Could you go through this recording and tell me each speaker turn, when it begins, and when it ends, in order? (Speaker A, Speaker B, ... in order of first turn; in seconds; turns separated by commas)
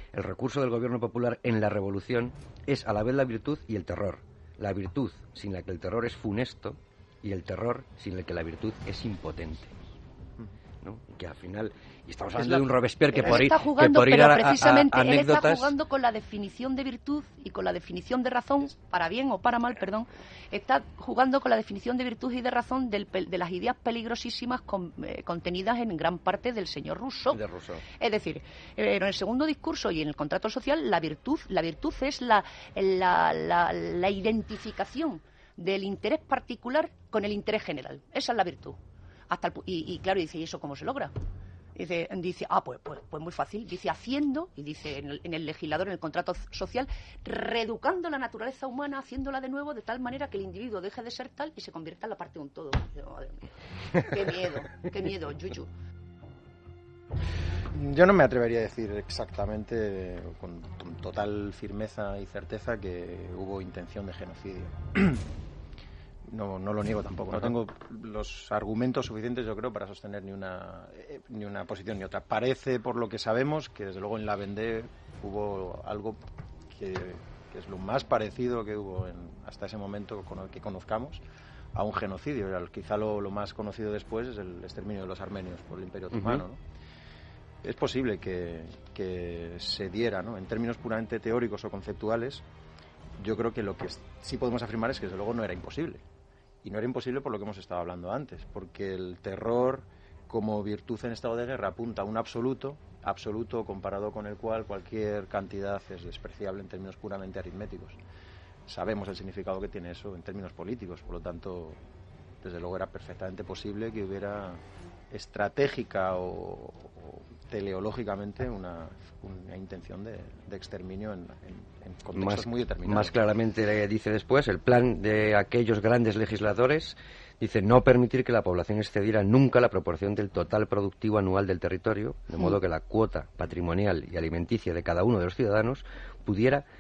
Speaker A: 0.1-9.7, Speaker A: 10.8-15.7, Speaker B: 13.2-27.4, Speaker A: 27.3-27.8, Speaker B: 28.0-38.8, Speaker B: 39.3-41.1, Speaker B: 41.8-55.7, Speaker C: 57.7-65.2, Speaker C: 66.3-76.2, Speaker C: 76.7-81.2, Speaker C: 81.7-86.6, Speaker A: 86.1-86.4, Speaker C: 87.6-92.4, Speaker C: 93.2-96.0, Speaker C: 96.6-108.0, Speaker C: 108.7-111.8, Speaker C: 112.4-123.2, Speaker A: 122.2-136.7